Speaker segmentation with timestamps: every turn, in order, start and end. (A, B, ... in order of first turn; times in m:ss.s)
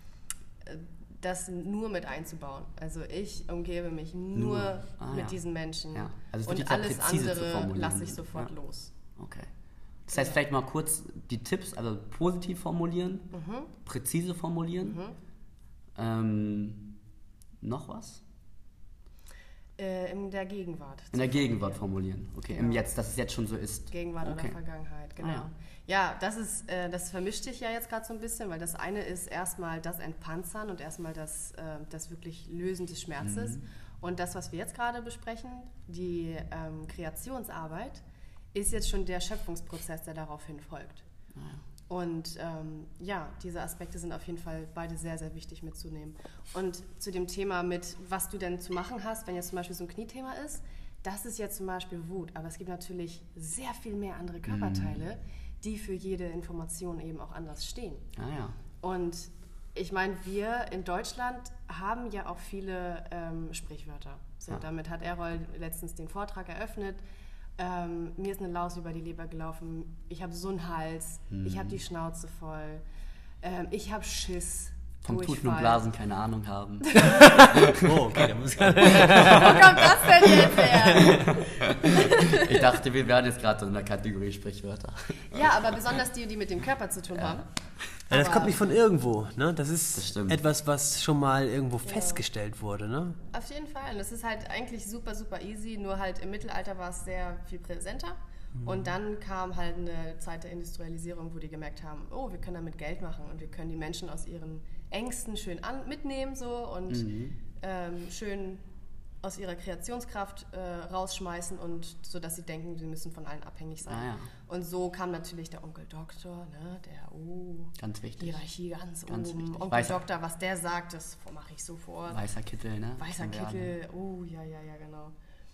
0:00.6-0:08.9 A
0:04.4-0:05.4 B
0:05.9-0:08.5 B
0:09.2-0:09.5 B
0:10.1-0:13.3 B
0:13.3-0:13.7 A
0:13.8-0:15.0 B
0:14.8-0:15.2 A
0:16.0-0:17.0 B
0:17.6-0:18.2 B
0:19.8-0:21.8 A
0:21.1-0:24.6 B
0:22.5-0:22.9 A
0:23.9-0:38.0 A
0:25.2-0:25.5 B
0:33.2-0:33.6 B
0:38.5-0:41.0 A
0:41.4-0:41.6 B
0:41.9-0:58.1 A
0:54.5-0:55.0 B
0:58.2-0:58.6 B
0:58.8-1:07.0 A
1:07.6-1:12.8 A
1:11.3-1:11.8 B
1:13.4-1:15.8 A
1:15.0-1:17.9 B
1:16.9-1:17.4 A
1:17.0-1:21.5 C
1:18.8-1:22.6 A
1:21.7-1:25.5 B
1:25.3-1:27.5 A
1:28.1-1:28.6 A
1:28.1-1:33.2 C
1:30.0-1:30.4 B
1:31.8-1:32.2 A
1:33.3-1:48.6 A
1:38.6-1:38.9 C
1:46.9-1:47.4 B
1:49.2-2:02.2 A
1:53.9-1:54.3 B
1:57.8-1:58.4 B
1:59.1-2:00.0 B
2:02.1-2:03.7 B
2:03.0-2:05.1 A